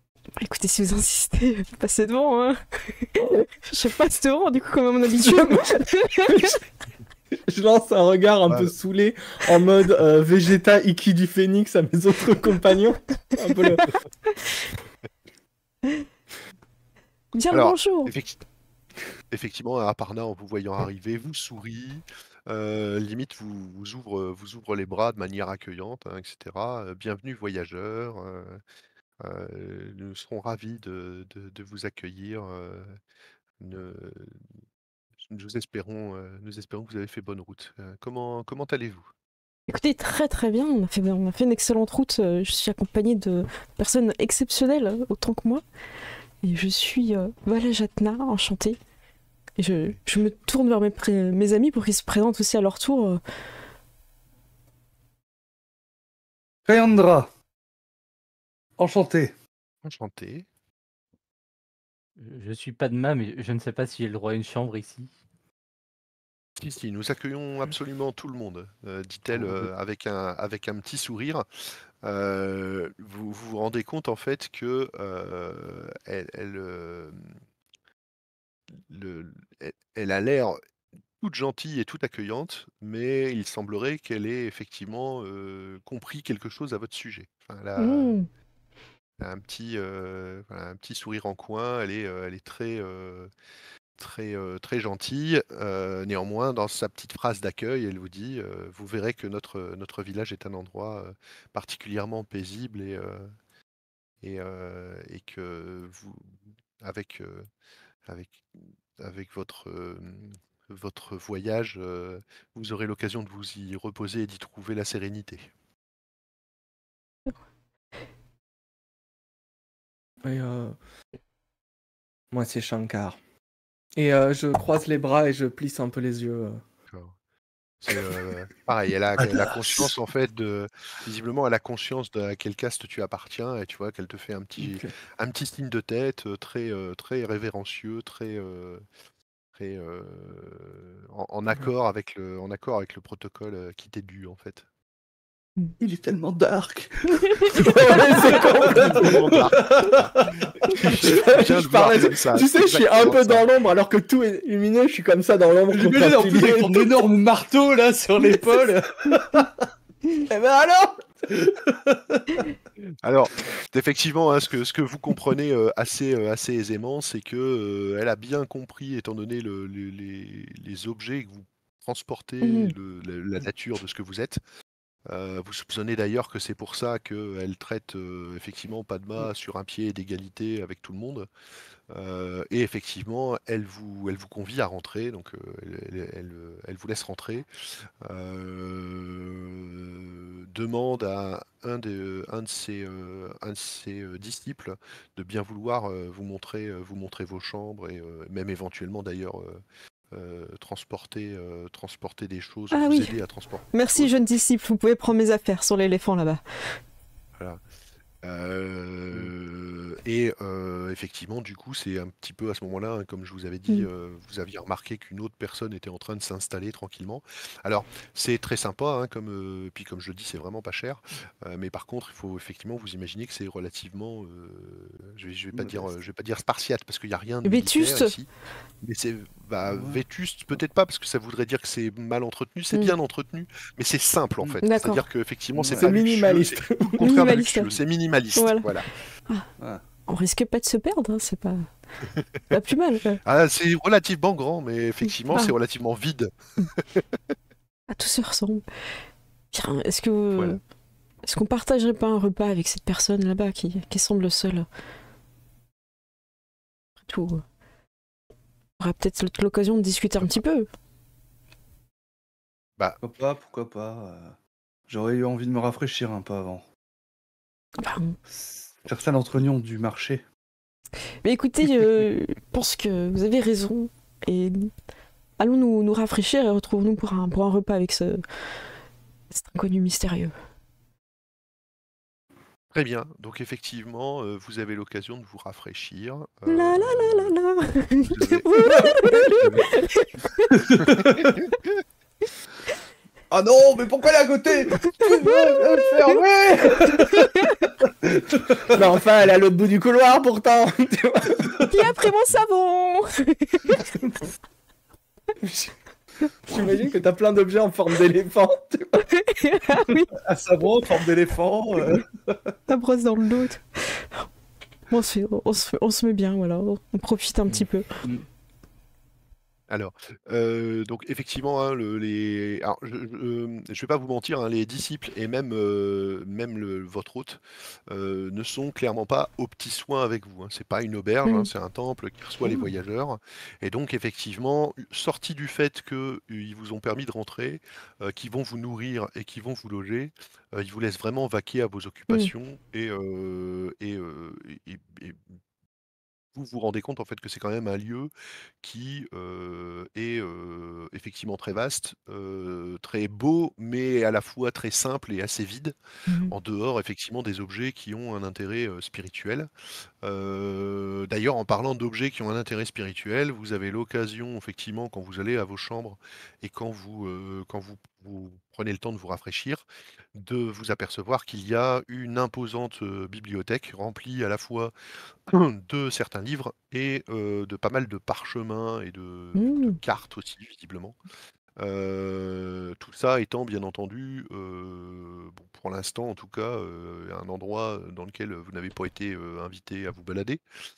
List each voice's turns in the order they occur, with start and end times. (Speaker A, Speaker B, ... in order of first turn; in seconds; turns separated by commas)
Speaker A: 0.4-6.6, Speaker B: 6.3-6.6, Speaker B: 7.5-13.9, Speaker C: 8.5-8.7, Speaker A: 17.3-18.1, Speaker C: 17.5-18.4, Speaker C: 19.3-28.6, Speaker C: 29.2-33.0, Speaker C: 33.6-34.4, Speaker C: 35.2-39.1, Speaker A: 39.7-45.6, Speaker A: 46.4-48.8, Speaker A: 49.6-53.2, Speaker D: 56.6-57.3, Speaker D: 58.8-59.3, Speaker C: 59.8-60.5, Speaker E: 62.2-65.1, Speaker C: 66.6-71.5, Speaker C: 72.0-77.3, Speaker C: 78.8-80.6, Speaker C: 81.2-88.2, Speaker A: 87.8-88.3, Speaker C: 89.2-93.3, Speaker C: 94.0-103.3, Speaker C: 104.2-107.5, Speaker C: 108.0-115.5, Speaker B: 120.2-120.8, Speaker B: 122.3-123.2, Speaker B: 124.0-126.6, Speaker C: 127.8-138.8, Speaker B: 134.6-134.9, Speaker C: 139.5-144.6, Speaker D: 145.8-150.5, Speaker B: 147.5-149.3, Speaker C: 148.3-153.5, Speaker B: 150.7-156.9, Speaker D: 155.7-159.7, Speaker B: 160.3-161.0, Speaker D: 161.3-162.4, Speaker C: 163.0-174.4, Speaker A: 172.4-172.7, Speaker C: 175.1-181.3, Speaker C: 181.9-187.5, Speaker C: 188.0-204.2, Speaker A: 202.7-203.2, Speaker A: 203.7-206.8, Speaker C: 208.2-228.3, Speaker D: 225.5-225.9, Speaker A: 227.4-228.1, Speaker C: 228.8-238.9, Speaker D: 229.6-230.0, Speaker A: 234.6-235.0, Speaker D: 235.6-235.9, Speaker B: 235.7-237.3, Speaker A: 237.0-237.7, Speaker A: 238.3-238.7, Speaker A: 240.1-241.7, Speaker A: 242.5-243.2, Speaker C: 243.2-247.1, Speaker A: 247.9-248.6, Speaker A: 249.5-250.6, Speaker A: 251.2-254.7, Speaker A: 257.1-257.4, Speaker A: 258.8-260.7, Speaker D: 263.0-264.4, Speaker D: 264.9-266.6, Speaker A: 267.8-268.2, Speaker D: 268.3-270.2, Speaker A: 271.2-274.7, Speaker A: 275.4-278.2, Speaker A: 279.3-280.3, Speaker C: 282.7-287.4, Speaker A: 286.5-290.5, Speaker C: 288.0-288.5, Speaker C: 289.3-289.8, Speaker D: 290.6-291.3, Speaker C: 290.7-291.6, Speaker D: 293.3-298.8, Speaker A: 295.0-295.7, Speaker A: 297.1-297.7, Speaker B: 298.7-301.6, Speaker A: 301.7-303.9, Speaker B: 305.4-305.7, Speaker B: 306.5-309.0, Speaker A: 309.0-310.1, Speaker D: 310.1-312.5, Speaker A: 312.7-314.3, Speaker A: 314.9-318.0, Speaker C: 319.7-345.4, Speaker C: 346.3-355.8, Speaker A: 356.1-356.3, Speaker C: 356.3-359.5, Speaker C: 360.0-374.7, Speaker C: 375.3-381.0, Speaker A: 379.4-379.8, Speaker C: 381.6-390.4